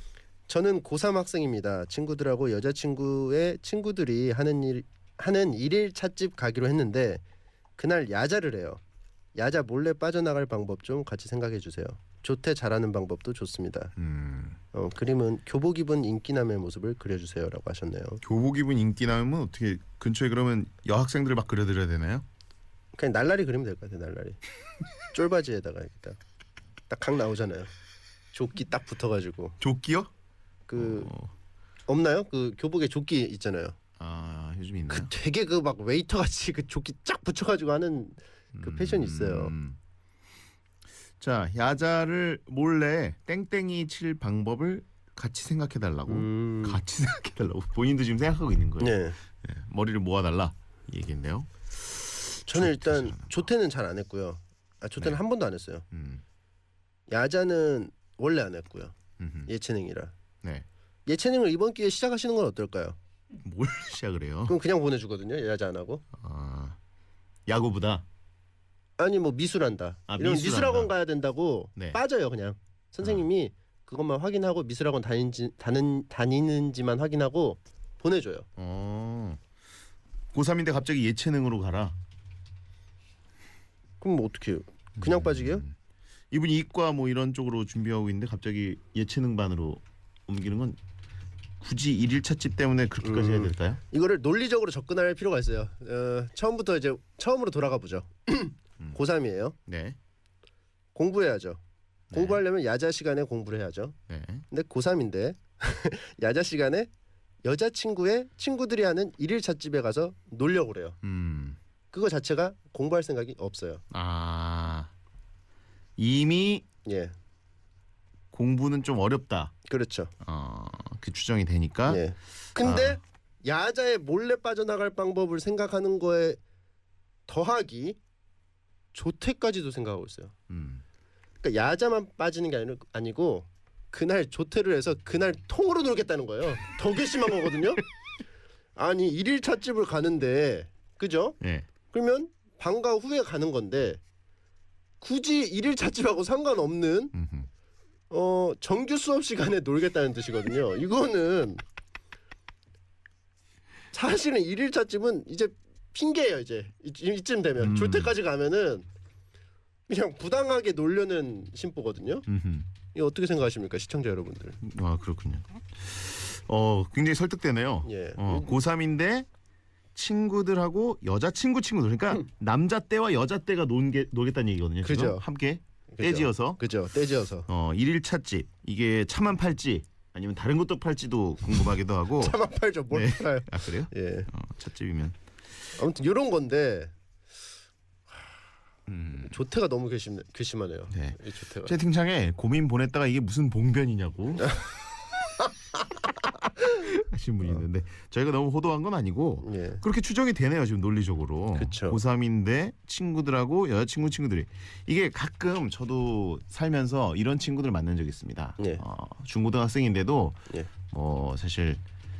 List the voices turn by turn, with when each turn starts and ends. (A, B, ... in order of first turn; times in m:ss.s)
0:00.5-0:07.2 A
0:07.8-0:08.8 A
0:09.3-0:13.9 A
0:14.0-0:14.6 B
0:14.7-0:18.2 A
0:18.2-0:22.2 B
0:23.0-0:24.4 A
0:25.1-0:26.2 A
0:26.9-0:27.7 A
0:28.3-0:29.6 A
0:29.6-0:30.1 B
0:30.7-0:31.1 A
0:30.8-0:31.3 B
0:31.9-0:33.8 A
0:34.0-0:35.1 B
0:34.9-0:39.5 A
0:38.5-0:39.8 B
0:41.2-0:53.5 B
0:46.1-0:46.8 A
0:48.8-0:49.2 A
0:52.5-0:55.8 A
0:55.9-0:56.2 B
0:57.1-0:59.0 A
0:59.2-0:59.5 B
0:59.5-1:00.1 A
1:01.0-1:03.0 A
1:03.4-1:04.5 B
1:04.5-1:06.0 A
1:06.1-1:06.8 B
1:07.5-1:08.0 B
1:09.0-1:18.4 A
1:10.1-1:10.9 B
1:18.6-1:19.4 B
1:20.3-1:21.9 B
1:24.0-1:25.6 A
1:25.0-1:25.7 B
1:26.3-1:30.8 B
1:31.6-1:33.8 B
1:33.0-1:39.6 A
1:39.6-1:40.0 B
1:40.9-1:41.6 A
1:42.1-1:42.4 B
1:42.1-1:44.0 A
1:44.1-1:44.4 B
1:44.5-1:46.9 A
1:47.4-1:51.0 A
1:51.0-1:51.6 B
1:51.9-1:53.8 A
1:53.9-1:54.9 B
1:56.0-1:56.6 B
1:56.8-1:57.1 A
1:58.3-1:59.5 B
1:59.7-2:00.1 A
2:00.2-2:02.0 B
2:01.9-2:06.4 A
2:02.6-2:03.0 B
2:07.3-2:08.0 A
2:08.9-2:10.3 A
2:10.5-2:10.8 B
2:11.4-2:17.8 A
2:18.8-2:21.4 A
2:21.4-2:21.7 B
2:21.9-2:24.0 A
2:25.0-2:27.1 A
2:27.1-2:27.5 B
2:28.1-2:31.6 A
2:33.9-2:38.9 A
2:37.6-2:38.1 B
2:39.9-2:42.2 A
2:42.3-2:42.7 B
2:42.9-2:44.6 A
2:44.6-2:49.3 B
2:47.8-2:48.5 A
2:49.9-2:56.7 B
2:54.8-2:55.2 A
2:55.9-2:57.5 A
2:57.5-3:02.4 B
3:02.2-3:04.3 A
3:02.9-3:05.2 B
3:05.8-3:06.9 A
3:08.9-3:09.4 B
3:09.2-3:11.7 A
3:10.9-3:14.7 B
3:16.6-3:31.8 B
3:19.4-3:19.8 A
3:21.6-3:22.0 A
3:28.6-3:28.8 A